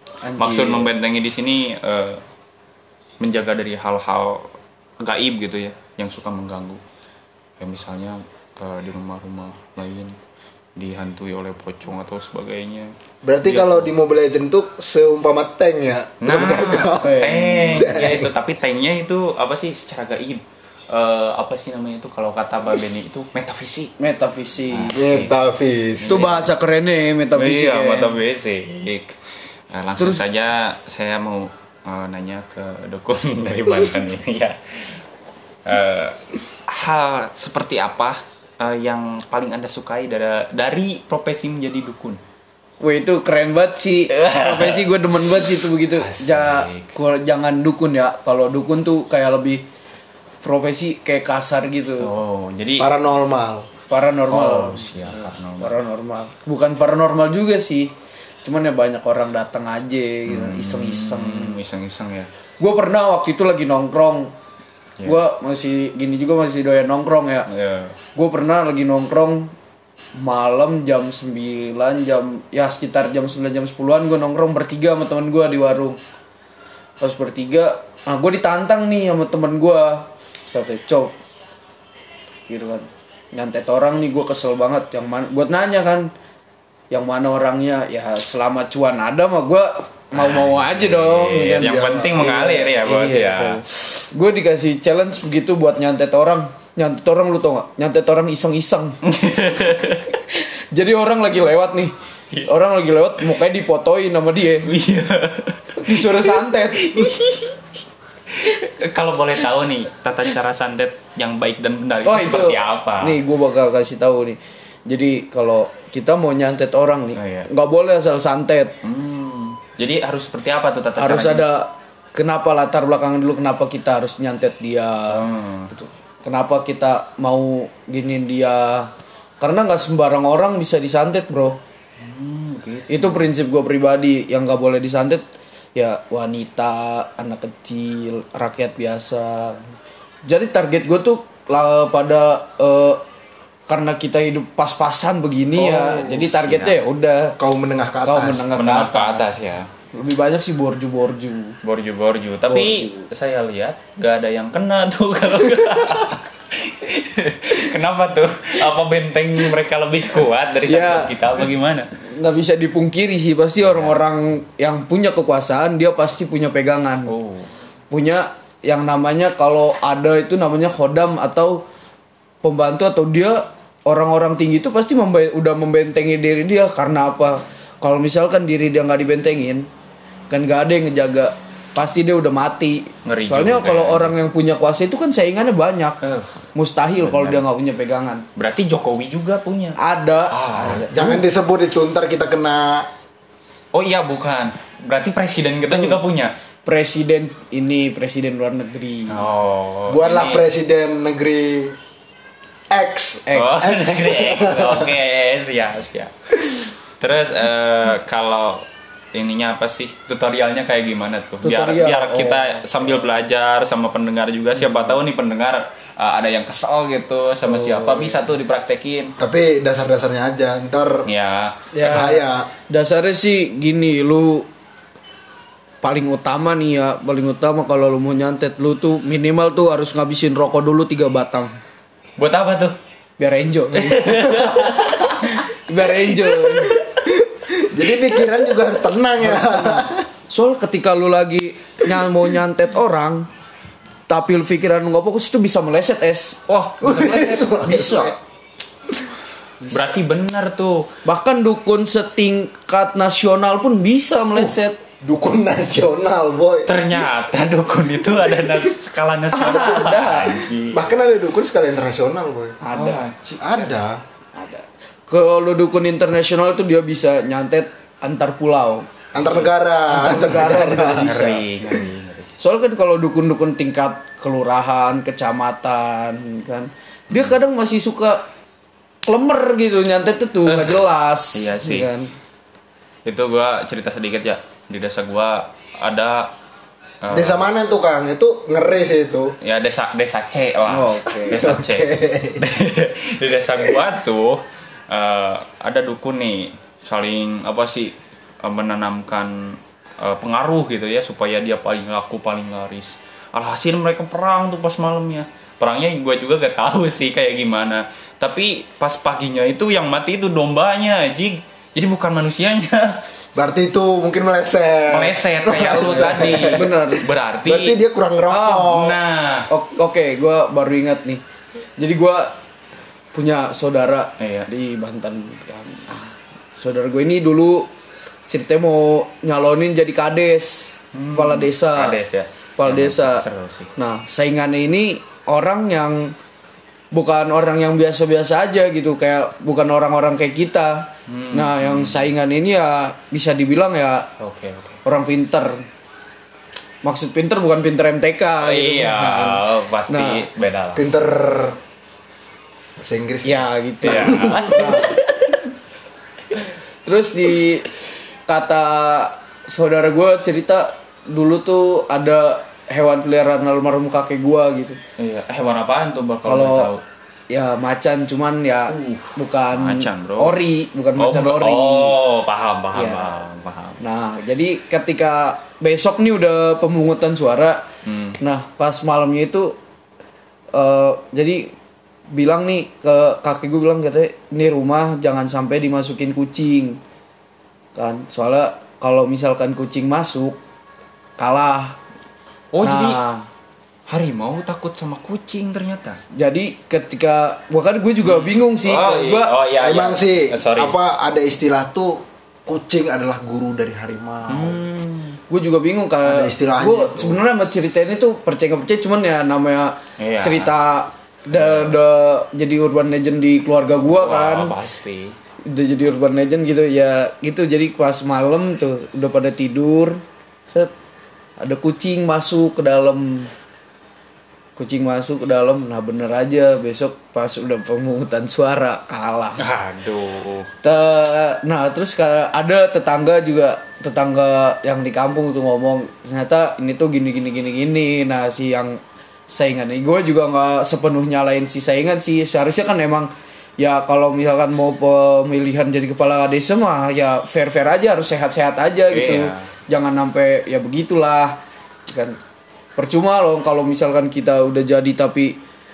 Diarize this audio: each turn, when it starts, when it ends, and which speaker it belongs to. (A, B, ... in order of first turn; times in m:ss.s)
0:00.2-0:00.9 A
0:00.4-0:02.2 B
0:03.2-0:06.8 B
0:07.6-0:10.1 B
0:10.8-0:12.9 B
0:13.2-0:18.3 C
0:13.4-0:13.9 B
0:16.2-0:23.9 B
0:17.0-0:18.0 A
0:24.0-0:25.0 A
0:24.7-0:25.3 B
0:25.0-0:26.2 C
0:26.0-0:26.5 B
0:26.0-0:28.2 A
0:27.3-0:29.2 B
0:29.7-0:35.0 B
0:35.6-0:42.2 B
0:42.8-0:49.6 A
0:44.1-0:46.9 B
0:50.4-0:52.1 A
0:52.0-0:52.9 B
0:52.8-0:53.7 C
0:53.9-0:57.9 A
0:54.3-0:55.7 B
0:58.4-1:01.6 A
1:00.2-1:02.3 B
1:02.6-1:04.3 A
1:05.0-1:07.5 A
1:07.5-1:08.0 B
1:08.1-1:09.5 A
1:10.2-1:16.0 A
1:17.0-1:21.1 A
1:22.5-1:26.1 A
1:26.9-1:39.0 A
1:30.1-1:33.6 B
1:31.5-1:32.2 C
1:39.0-1:40.1 B
1:40.1-1:44.7 A
1:44.6-1:47.6 B
1:45.8-1:47.1 A
1:48.3-1:53.2 B
1:52.0-1:58.7 A
1:57.2-1:57.5 B
1:58.8-2:01.5 B
2:01.0-2:11.6 A
2:05.1-2:05.7 B
2:12.0-2:13.2 B
2:12.9-2:15.2 A
2:15.8-2:19.7 A
2:20.2-2:23.0 A
2:23.7-2:27.4 A
2:25.6-2:26.8 B
2:27.4-2:28.5 C
2:28.0-2:29.3 A
2:28.5-2:29.7 B
2:29.9-2:31.6 A
2:31.6-2:41.9 B
2:32.5-2:33.0 A
2:40.7-2:41.1 A
2:42.0-2:47.1 A
2:43.6-2:44.0 B
2:47.1-2:47.5 B
2:47.9-2:51.6 A
2:52.4-2:59.7 A
3:00.3-3:06.0 A
3:03.0-3:04.1 B
3:06.0-3:06.3 B
3:06.5-3:08.2 A
3:07.0-3:07.4 B
3:08.4-3:09.8 B
3:09.8-3:11.2 A
3:10.3-3:10.9 B
3:10.7-3:12.9 C
3:13.7-3:16.3 B
3:15.7-3:16.0 A
3:16.6-3:19.2 A
3:19.1-3:20.4 B
3:19.9-3:21.8 C
3:22.7-3:24.9 C
3:23.3-3:23.6 A
3:23.3-3:39.1 B
3:31.4-3:33.0 A
3:34.6-3:35.0 A
3:37.4-3:38.2 A
3:39.2-3:41.1 C
3:41.0-3:41.7 B
3:41.7-3:44.5 A
3:41.8-3:42.5 C
3:45.8-3:51.6 A
3:52.2-3:52.8 B
3:53.2-3:56.8 A
3:53.7-3:55.2 B
3:54.5-3:54.9 C
3:56.7-4:00.0 C
3:59.2-4:03.3 A
4:04.1-4:08.1 A
4:06.5-4:07.4 B
4:06.8-4:08.2 C
4:09.7-4:10.8 B
4:11.0-4:14.8 A
4:15.0-4:16.7 C
4:16.7-4:20.8 B
4:18.2-4:18.7 C
4:19.3-4:20.4 A
4:20.7-4:22.6 C
4:22.6-4:23.0 A
4:22.7-4:23.7 B
4:23.4-4:24.0 C
4:24.3-4:28.9 A
4:29.1-4:31.1 C
4:29.9-4:31.5 A
4:31.0-4:32.3 B
4:32.4-4:38.2 A
4:39.0-4:42.1 A
4:40.4-4:41.9 B
4:43.0-4:46.3 B
4:47.0-4:47.4 B
4:47.1-4:49.3 C
4:49.4-5:13.0 B
4:50.7-4:51.5 A
4:51.3-4:52.4 C
5:13.4-5:16.8 C
5:14.9-5:17.8 B
5:15.6-5:17.0 A
5:17.4-5:19.0 C
5:18.3-5:18.7 A
5:18.6-5:19.5 B
5:19.5-5:21.2 A
5:21.8-5:22.4 A
5:23.1-5:27.7 A
5:24.2-5:24.5 B
5:28.3-5:32.0 A
5:30.9-5:33.7 B
5:32.6-5:33.2 A
5:33.8-5:36.1 A
5:36.9-5:44.1 A
5:41.1-5:42.1 B
5:44.2-5:44.8 B
5:44.8-5:45.6 A
5:46.8-5:50.2 A
5:48.4-5:50.9 B
5:50.7-5:51.6 C
5:52.8-5:54.8 C
5:53.2-5:55.0 A
5:53.8-5:55.4 B
5:56.8-5:57.7 A
5:58.3-6:04.8 A
6:05.0-6:06.8 B
6:06.2-6:06.7 A
6:07.3-6:12.0 A
6:08.7-6:10.4 B
6:11.0-6:13.8 B
6:12.7-6:13.2 A
6:13.8-6:17.6 A
6:17.8-6:18.2 B
6:18.2-6:19.6 A
6:20.5-6:21.5 A
6:22.1-6:26.8 A
6:27.7-6:30.4 A
6:31.2-6:31.8 A
6:32.5-6:33.0 B
6:32.6-6:33.2 A
6:33.9-6:36.0 B
6:36.1-6:39.3 A
6:38.0-6:40.8 B
6:39.6-6:44.6 C
6:44.3-6:45.2 B
6:45.3-6:54.5 A
6:46.0-6:47.2 C
6:50.0-6:50.5 B
6:51.3-6:51.8 B
6:53.9-6:55.2 B
6:55.4-7:00.7 A
7:01.4-7:03.3 A
7:04.6-7:09.4 A
7:09.4-7:10.5 B
7:10.6-7:32.2 A
7:28.9-7:29.5 B
7:32.8-7:35.4 A